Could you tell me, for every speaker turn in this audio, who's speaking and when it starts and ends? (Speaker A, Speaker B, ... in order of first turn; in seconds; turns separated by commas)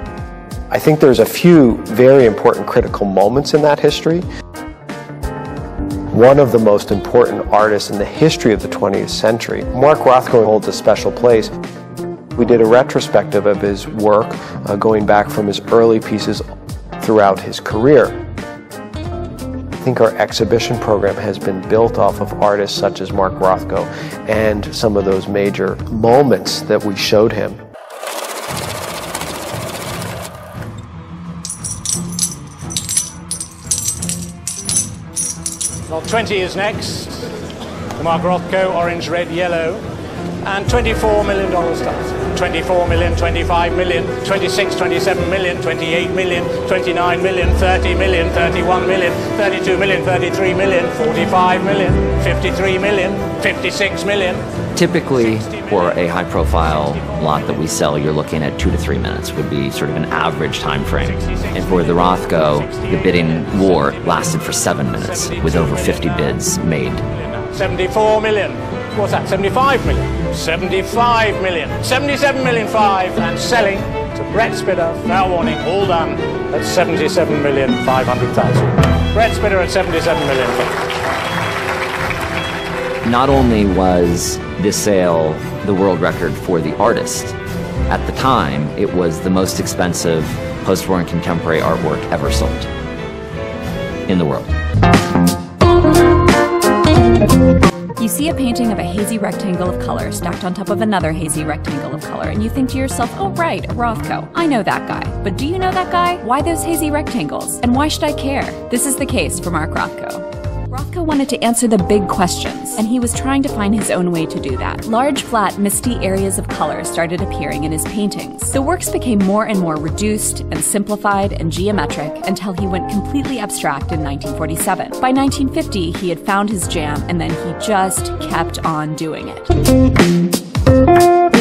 Speaker A: 0.7-4.2, Speaker A: 6.1-11.5, Speaker A: 12.4-16.4, Speaker A: 17.0-18.2, Speaker A: 19.8-27.6, Speaker B: 35.9-37.3, Speaker B: 38.0-39.8, Speaker B: 40.4-54.4, Speaker C: 54.7-67.0, Speaker B: 55.2-57.7, Speaker B: 61.0-66.4, Speaker B: 67.1-80.7, Speaker C: 83.0-87.4, Speaker C: 87.9-92.7, Speaker C: 94.1-94.5, Speaker D: 98.0-129.6